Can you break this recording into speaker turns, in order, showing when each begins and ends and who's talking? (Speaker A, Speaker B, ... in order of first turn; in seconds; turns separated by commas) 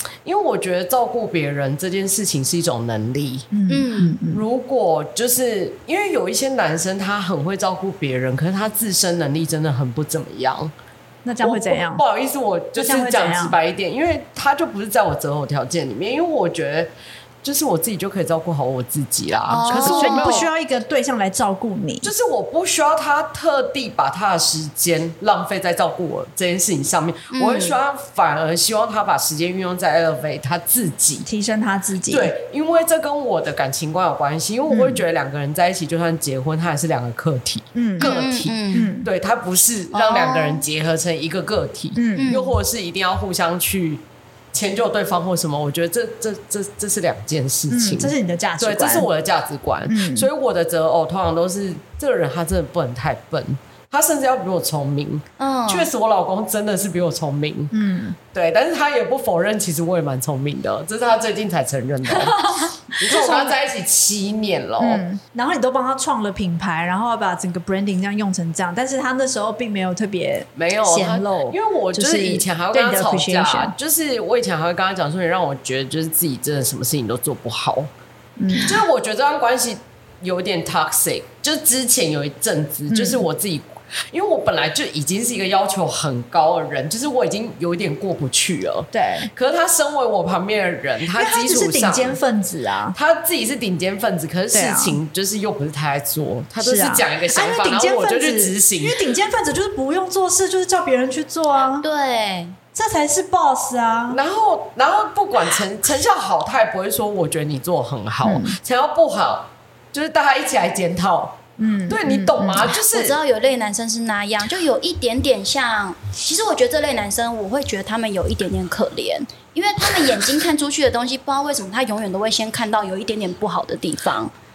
Speaker A: 0.2-3.5, Speaker B: 3.5-4.4, Speaker C: 3.7-4.2, Speaker A: 4.3-10.7, Speaker B: 11.2-12.0, Speaker A: 11.4-16.9, Speaker B: 12.8-13.6, Speaker A: 17.4-20.5, Speaker C: 19.5-20.5, Speaker B: 19.7-22.1, Speaker A: 22.0-31.2, Speaker C: 27.3-27.8, Speaker B: 31.2-32.3, Speaker A: 32.1-57.7, Speaker B: 34.7-35.0, Speaker B: 37.7-38.1, Speaker C: 38.0-38.9, Speaker B: 38.7-39.1, Speaker C: 39.9-40.6, Speaker B: 42.0-42.3, Speaker C: 42.2-42.6, Speaker B: 47.7-49.1, Speaker B: 49.9-50.3, Speaker C: 55.4-55.9, Speaker B: 57.7-58.2, Speaker A: 58.3-65.0, Speaker C: 62.2-63.5, Speaker B: 64.8-73.7, Speaker A: 70.5-77.9, Speaker B: 78.4-78.8, Speaker A: 78.5-92.2, Speaker B: 82.9-83.2, Speaker B: 88.9-89.3, Speaker B: 91.1-93.0, Speaker A: 92.9-99.0, Speaker B: 94.5-95.0, Speaker B: 96.6-101.9, Speaker C: 101.8-102.6, Speaker B: 102.7-104.2, Speaker A: 104.1-113.2, Speaker B: 108.2-108.6, Speaker B: 111.6-112.7, Speaker C: 112.5-124.3